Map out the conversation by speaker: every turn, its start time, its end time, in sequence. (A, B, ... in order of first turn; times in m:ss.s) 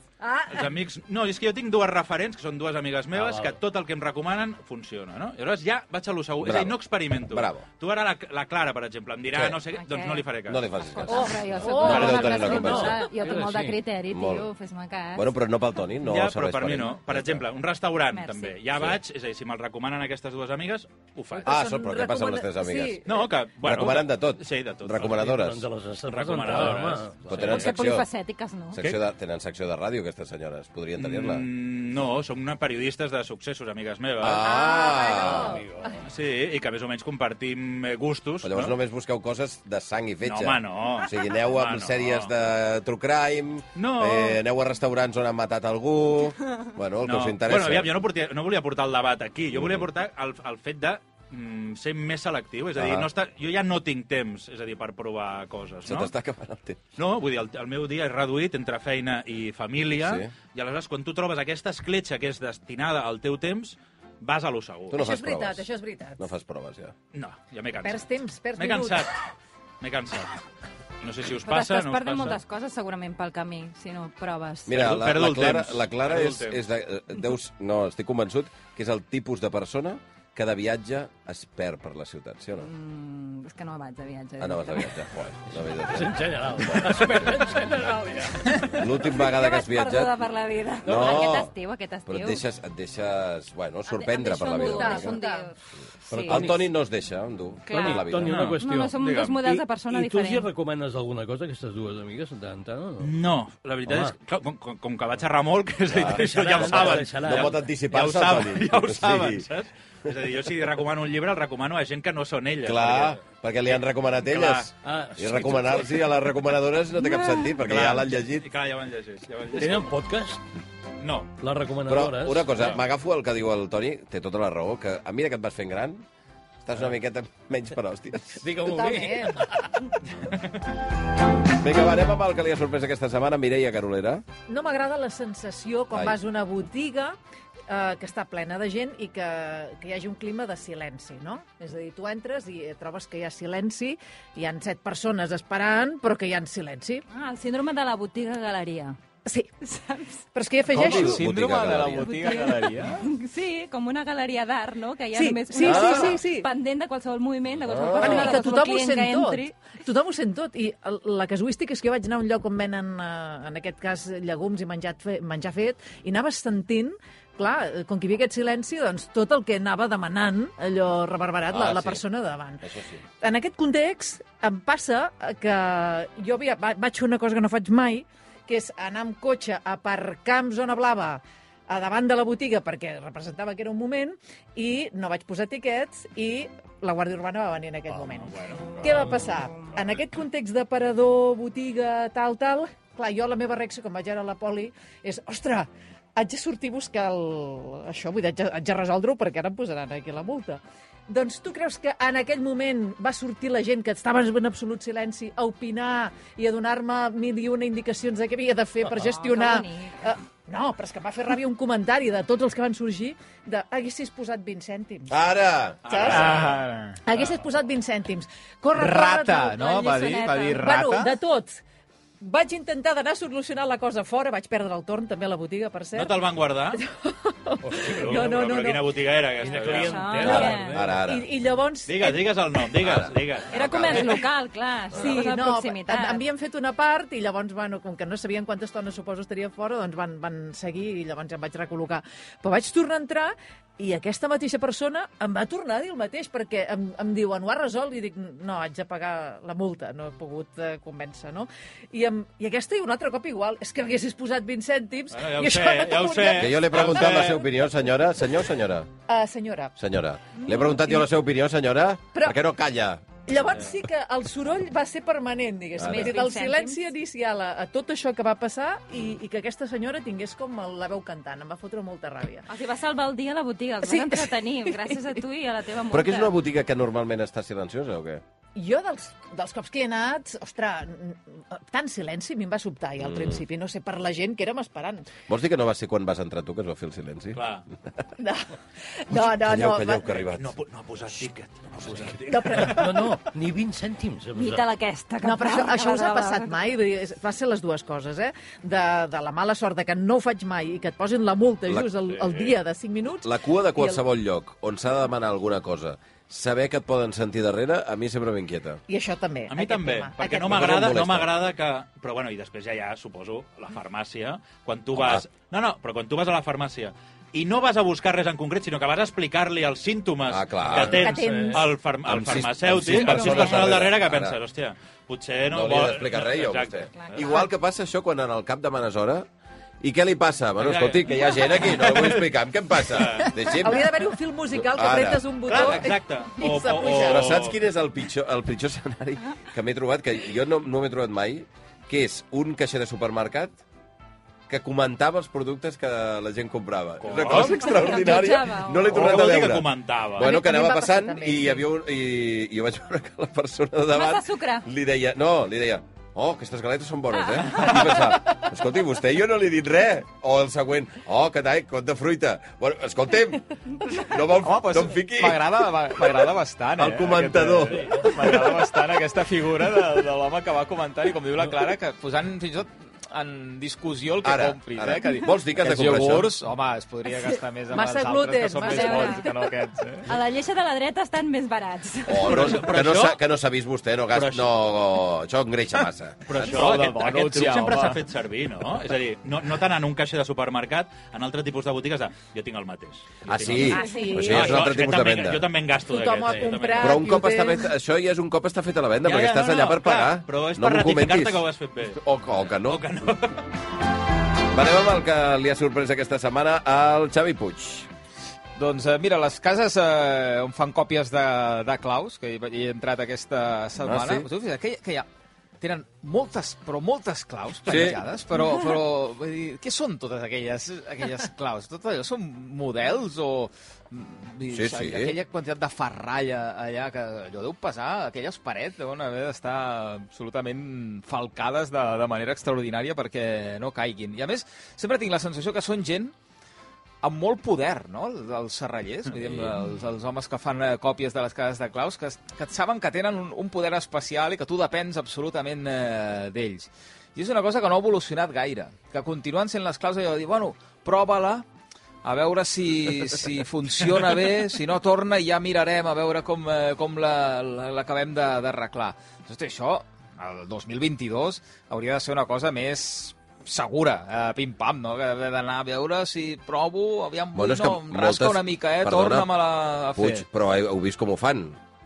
0:00.2-0:00.7 A
0:00.5-0:10.6 B
0:03.1-0:03.6 C
0:06.4-0:07.6 D
0:09.3-0:09.6 D
0:09.8-0:10.3 E
0:10.5-0:13.0 D
0:10.8-0:15.3 E
0:11.1-0:12.7 A
0:11.8-0:12.4 B
0:12.5-0:13.8 C
0:14.1-0:14.5 D
0:15.1-0:17.4 D
0:16.0-0:21.5 B
0:18.1-0:18.6 E
0:18.7-0:19.0 D
0:21.3-0:23.3 A
0:21.4-0:23.0 D
0:23.0-0:25.4 B
0:23.6-0:25.6 D
0:25.1-0:27.2 C
0:26.1-0:27.8 B
0:27.2-0:28.1 D
0:27.4-0:28.8 E
0:28.7-0:31.4 D
0:31.0-0:34.4 B
0:34.2-0:35.6 D
0:34.4-0:36.0 A
0:34.6-0:35.1 E
0:35.2-0:36.0 C
0:36.0-0:38.7 B
0:38.4-0:48.0 D
0:40.2-0:42.3 B
0:43.8-0:44.4 B
0:47.0-0:56.1 B
0:49.5-0:49.9 D
0:52.8-0:53.1 D
0:55.8-0:56.8 D
0:57.0-1:05.0 B
1:00.0-1:00.3 D
1:04.9-1:05.6 D
1:04.9-1:06.2 A
1:06.2-1:06.9 D
1:07.1-1:09.2 B
1:07.8-1:09.1 A
1:09.8-1:10.4 B
1:11.0-1:12.4 B
1:11.4-1:14.8 E
1:14.7-1:22.7 D
1:14.7-1:16.6 B
1:22.6-1:25.0 E
1:24.4-1:27.6 D
1:25.7-1:28.8 C
1:28.7-1:30.1 D
1:28.8-1:32.4 E
1:30.8-1:31.5 D
1:32.0-1:35.2 D
1:33.8-1:35.6 E
1:34.6-1:35.5 A
1:36.1-1:36.5 E
1:36.1-1:36.7 C
1:36.3-1:38.4 D
1:37.7-1:40.5 E
1:37.7-1:43.1 C
1:38.2-1:39.4 B
1:43.0-1:54.7 B
1:43.9-1:44.1 C
1:45.9-1:49.5 D
1:46.0-1:47.6 C
1:52.6-1:58.5 D
1:54.8-1:55.8 C
1:57.6-1:59.9 B
1:59.5-2:00.4 C
2:01.0-2:01.3 B
2:01.4-2:02.5 C
2:01.9-2:06.0 D
2:06.6-2:08.4 D
2:08.3-2:09.7 C
2:08.6-2:09.6 A
2:10.2-2:10.6 B
2:11.5-2:14.2 D
2:14.5-2:17.2 A
2:15.9-2:16.2 D
2:17.7-2:27.0 A
2:27.1-2:29.0 E
2:29.2-2:29.5 A
2:29.6-2:30.2 E
2:30.3-2:31.2 A
2:30.7-2:32.1 D
2:30.7-2:33.0 F
2:31.9-2:39.6 E
2:35.1-2:36.5 A
2:35.6-2:36.2 D
2:37.6-2:38.4 D
2:38.0-2:52.6 A
2:51.5-2:52.0 D
2:52.6-2:53.0 D
2:53.2-3:35.1 A
3:07.9-3:09.1 B
3:29.0-3:30.0 E
3:35.1-3:35.8 D
3:35.8-3:36.6 B
3:35.9-3:36.5 A
3:36.1-3:37.2 F
3:37.0-3:39.6 A
3:38.7-3:41.1 F
3:39.5-3:40.6 E
3:40.6-3:41.6 A
3:42.2-3:46.2 A
3:45.9-3:46.8 B
3:46.7-3:48.9 A
3:47.6-3:48.3 C
3:47.8-3:50.4 B
3:49.4-3:51.0 C
3:49.7-3:50.8 E
3:50.2-3:51.3 D
3:50.8-3:52.6 A
3:51.9-3:54.1 B
3:52.8-3:54.1 D
3:53.5-3:56.2 E
3:54.9-4:17.3 A
4:15.1-4:17.4 B
4:16.4-4:18.9 D
4:19.1-4:19.7 A
4:19.8-4:23.0 D
4:20.6-4:21.0 A
4:23.2-4:32.5 A
4:25.8-4:26.2 D
4:25.8-4:26.8 E
4:32.5-4:36.3 E
4:33.8-4:34.9 A
4:35.9-4:38.2 D
4:38.5-4:45.1 A
4:43.0-4:43.4 D
4:45.3-4:47.9 D
4:47.3-4:47.6 B
4:48.2-4:48.5 A
4:49.0-4:50.1 A
4:49.1-4:50.5 D
4:50.3-4:52.9 B
4:51.8-4:52.1 D
4:52.2-4:53.2 A
4:52.6-4:54.6 C
4:54.4-4:56.6 E
4:55.2-5:04.0 A
5:02.1-5:02.5 B
5:03.2-5:08.8 D
5:08.9-5:10.7 A
5:09.5-5:27.4 B
5:10.4-5:11.3 D
5:14.9-5:15.2 D
5:20.3-5:21.1 D
5:20.7-5:21.6 C
5:20.8-5:21.6 A
5:21.3-5:21.6 E
5:22.0-5:24.4 D
5:23.1-5:23.4 E
5:25.5-5:29.3 D
5:27.0-5:27.4 E
5:29.8-5:36.0 D
5:30.6-5:33.5 B
5:33.5-5:37.3 A
5:35.5-5:37.6 B
5:36.8-5:43.6 D
5:44.5-6:05.6 D
5:47.0-5:48.2 B
5:47.4-5:48.9 E
5:48.9-5:50.4 B
5:50.2-5:51.7 A
5:53.9-5:54.7 E
6:04.3-6:20.1 F
6:06.8-6:08.0 D
6:07.7-6:08.1 C
6:14.2-6:16.3 D
6:17.7-6:19.3 A
6:18.6-6:19.3 E
6:20.0-6:22.6 E
6:22.0-6:26.6 D
6:22.2-6:23.2 B
6:24.1-6:24.5 B
6:26.3-6:37.1 B
6:26.3-6:28.0 F
6:33.2-6:35.5 D
6:33.6-6:34.7 A
6:33.8-6:34.2 E
6:35.9-6:37.7 A
6:36.8-6:41.4 D
6:39.0-6:42.0 B
6:41.9-6:42.9 D
6:42.6-6:43.4 B
6:44.5-6:47.9 D
6:48.6-6:55.1 F
6:53.8-6:54.3 D
6:55.6-7:16.1 F
6:57.6-6:58.0 D
7:04.5-7:05.1 D
7:17.0-7:31.4 F
7:19.2-7:19.5 D
7:32.0-7:50.2 F
7:47.3-7:49.3 D
7:49.9-7:51.6 D